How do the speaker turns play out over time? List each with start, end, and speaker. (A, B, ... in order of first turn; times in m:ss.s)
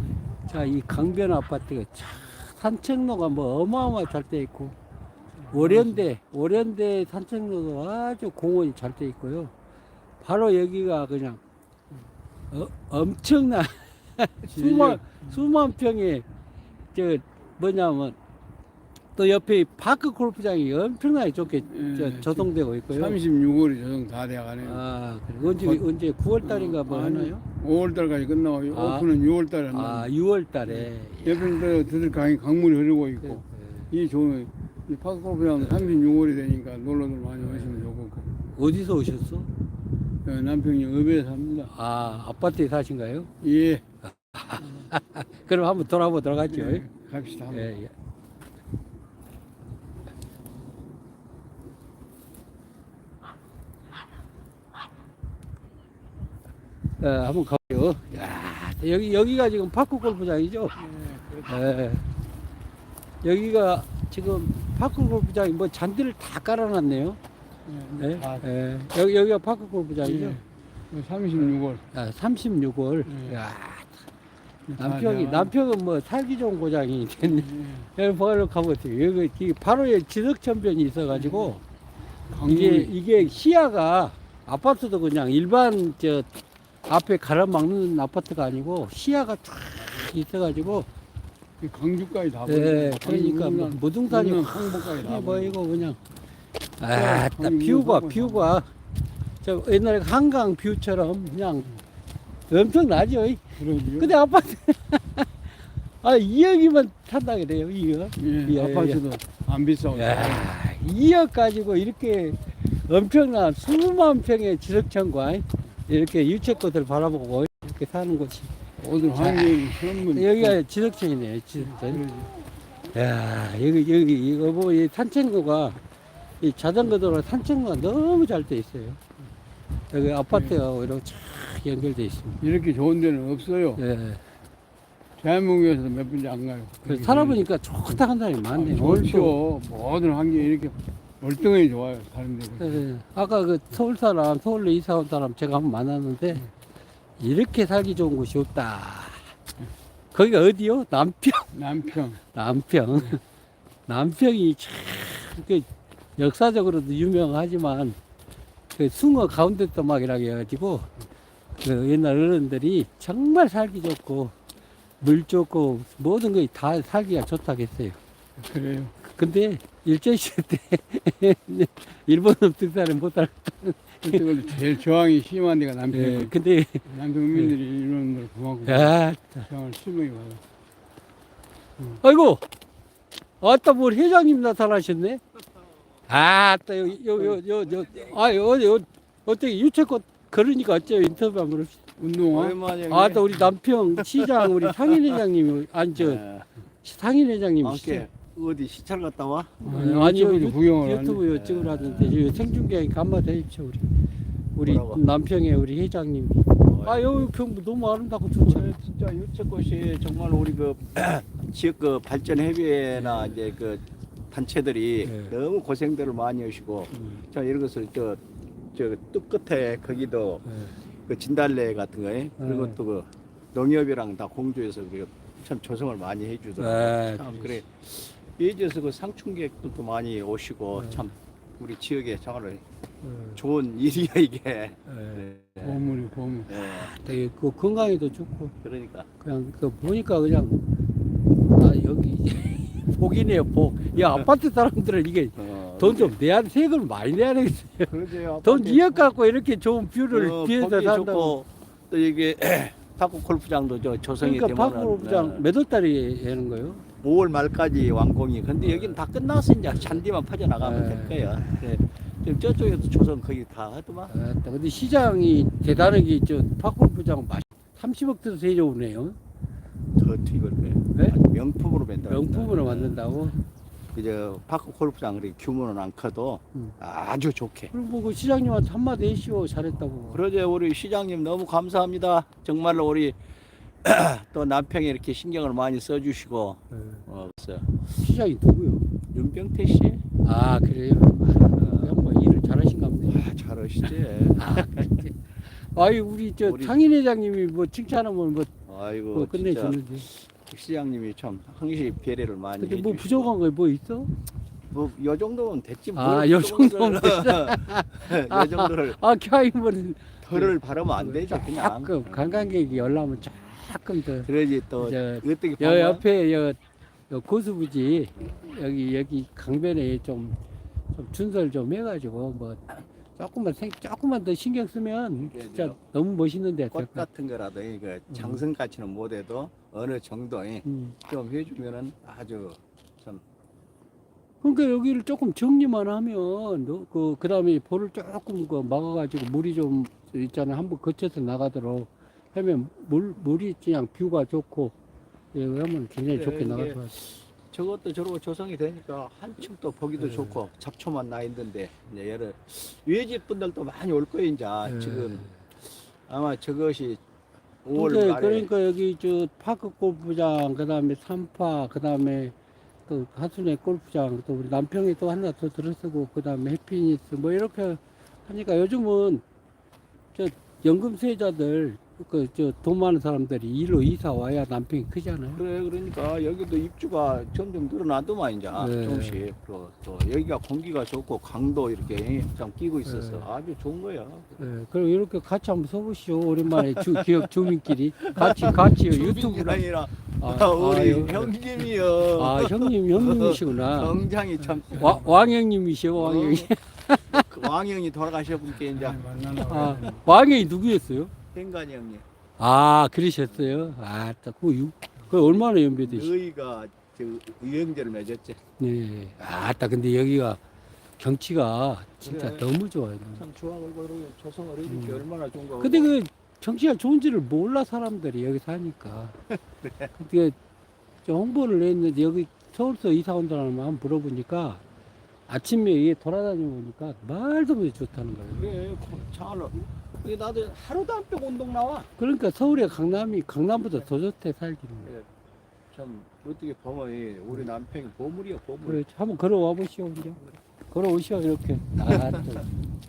0:00.5-0:04.8 A
0:05.5-0:06.0 B
0:05.5-0:09.5 A
0:10.2-0:11.4 A
0:12.5-0:16.2 A
0:14.5-0:15.3 B
0:16.9-0:18.2 A
0:19.2-0:23.2 A
0:21.7-0:24.8 B
0:24.6-0:27.4 A
0:25.4-0:25.8 B
0:26.4-0:30.1 B
0:28.7-0:29.1 A
0:29.7-0:31.8 A
0:30.7-0:38.3 B
0:33.2-0:33.9 A
0:35.6-0:36.0 A
0:37.4-0:37.9 A
0:38.4-0:39.5 A
0:40.2-0:41.7 B
0:41.7-0:43.3 A
0:43.4-0:43.8 B
0:44.3-0:46.9 A
0:44.6-0:44.9 B
0:46.4-0:47.7 B
0:47.5-0:47.9 A
0:57.0-1:00.8 A
1:00.8-1:01.6 B
1:01.4-1:02.1 A
1:03.2-1:07.2 A
1:07.7-1:08.5 B
1:08.0-1:10.4 A
1:10.0-1:11.8 B
1:11.9-1:14.0 A
1:13.1-1:13.4 B
1:14.7-1:15.5 B
1:14.8-1:21.6 A
1:17.2-1:17.9 B
1:21.1-1:21.5 B
1:22.3-1:23.4 B
1:22.4-1:26.3 A
1:26.9-1:30.9 A
1:31.6-1:35.6 B
1:32.5-1:36.0 A
1:36.8-1:38.7 A
1:36.9-1:38.5 B
1:39.4-1:41.8 A
1:42.5-1:43.4 A
1:43.6-1:44.1 B
1:44.0-1:45.3 A
1:46.0-1:49.0 A
1:48.2-1:50.5 B
1:49.9-1:58.5 A
1:58.8-2:00.6 B
1:59.2-2:02.0 A
2:01.6-2:02.3 B
2:02.9-2:05.8 A
2:06.4-2:09.0 A
2:09.9-2:12.4 A
2:12.4-2:13.8 B
2:13.8-2:14.2 A
2:15.2-2:17.4 B
2:16.9-2:19.4 A
2:18.5-2:22.8 B
2:22.6-2:26.5 A
2:27.2-2:29.3 A
2:30.1-2:31.5 A
2:31.5-2:32.2 B
2:32.3-2:33.2 A
2:33.9-2:38.0 A
2:38.7-2:40.9 A
2:41.6-2:44.4 A
2:45.0-2:48.0 A
2:48.4-2:48.9 B
2:49.0-2:54.2 A
2:54.0-2:56.3 B
2:55.9-2:57.6 A
2:56.9-3:00.4 B
2:58.7-2:59.5 A
3:01.9-3:02.4 A
3:03.4-3:05.2 A
3:06.1-3:11.8 A
3:12.0-3:12.6 B
3:12.3-3:13.4 C
3:12.9-3:16.2 A
3:14.0-3:15.0 C
3:16.0-3:16.5 C
3:16.8-3:18.0 A
3:17.6-3:19.6 C
3:19.6-3:23.9 A
3:19.6-3:21.2 B
3:21.3-3:22.2 C
3:24.6-3:28.7 A
3:24.7-3:25.0 C
3:26.6-3:27.1 C
3:28.4-3:38.2 C
3:32.9-3:33.5 A
3:35.0-3:35.4 A
3:36.9-3:37.2 A
3:38.7-3:40.4 C
3:40.4-3:40.7 A
3:41.1-3:52.6 C
3:42.4-3:42.8 A
3:46.6-3:47.6 A
3:50.8-3:51.1 A
3:53.0-3:53.4 A
3:53.4-3:55.9 C
3:54.9-3:55.2 A
3:55.6-3:56.5 B
3:56.5-3:56.9 C
3:56.6-3:58.5 A
3:58.6-3:59.1 C
3:59.2-4:00.6 A
4:01.5-4:07.9 A
4:04.0-4:04.2 C
4:05.4-4:06.1 C
4:07.9-4:09.2 C
4:08.4-4:11.4 A
4:10.1-4:15.4 C
4:14.2-4:16.8 A
4:17.0-4:24.1 C
4:18.6-4:19.0 A
4:20.6-4:21.6 A
4:24.1-4:29.2 A
4:30.0-4:33.0 C
4:32.1-4:33.4 A
4:33.9-4:37.7 C
4:37.7-4:40.2 A
4:40.1-4:43.2 C
4:43.8-4:47.7 C
4:46.7-4:47.0 A
4:47.9-4:48.9 A
4:49.1-4:50.0 C
4:50.2-4:53.3 A
4:51.6-4:52.0 C
4:53.1-4:54.9 C
4:54.4-4:58.5 A
4:56.4-4:56.8 C
4:58.7-5:03.3 C
4:59.1-5:00.1 A
5:02.6-5:04.1 A
5:04.7-5:09.0 C
5:06.0-5:16.6 A
5:10.2-5:12.9 C
5:14.3-5:16.0 C
5:17.1-5:20.4 A
5:20.9-5:27.1 A
5:25.2-5:25.8 C
5:26.7-5:33.2 C
5:28.1-5:28.4 A
5:30.6-5:31.0 A
5:34.4-5:44.7 A
5:45.3-5:46.9 A
5:46.1-5:55.3 C
5:50.0-5:50.4 A
5:54.7-5:55.4 A
5:56.1-5:57.0 C
5:57.6-5:58.5 C
5:57.7-6:02.3 A
6:02.9-6:09.2 A
6:10.1-6:15.4 A
6:15.3-6:24.3 C
6:18.6-6:19.2 A
6:22.8-6:23.3 A
6:24.4-6:29.6 A
6:26.8-6:35.2 C
6:30.2-6:31.4 A
6:32.2-6:33.9 A
6:34.6-6:37.2 A
6:35.9-6:36.5 C
6:37.1-6:39.0 C
6:38.7-6:40.0 B
6:39.4-6:41.1 A
6:41.3-6:42.0 C
6:42.4-6:46.1 A
6:43.3-6:43.7 C
6:45.2-6:48.4 C
6:48.6-6:50.4 A
6:51.0-6:53.2 A
6:52.0-6:52.5 C
6:53.2-6:55.9 C
6:54.7-6:55.0 A
6:55.6-6:59.2 A
6:59.3-6:59.9 C
6:59.9-7:00.4 A
7:01.0-7:04.6 A
7:05.3-7:08.5 A
7:08.4-7:11.9 C
7:12.0-7:14.9 A
7:15.7-7:18.8 C
7:18.6-7:22.5 A
7:21.9-7:22.2 C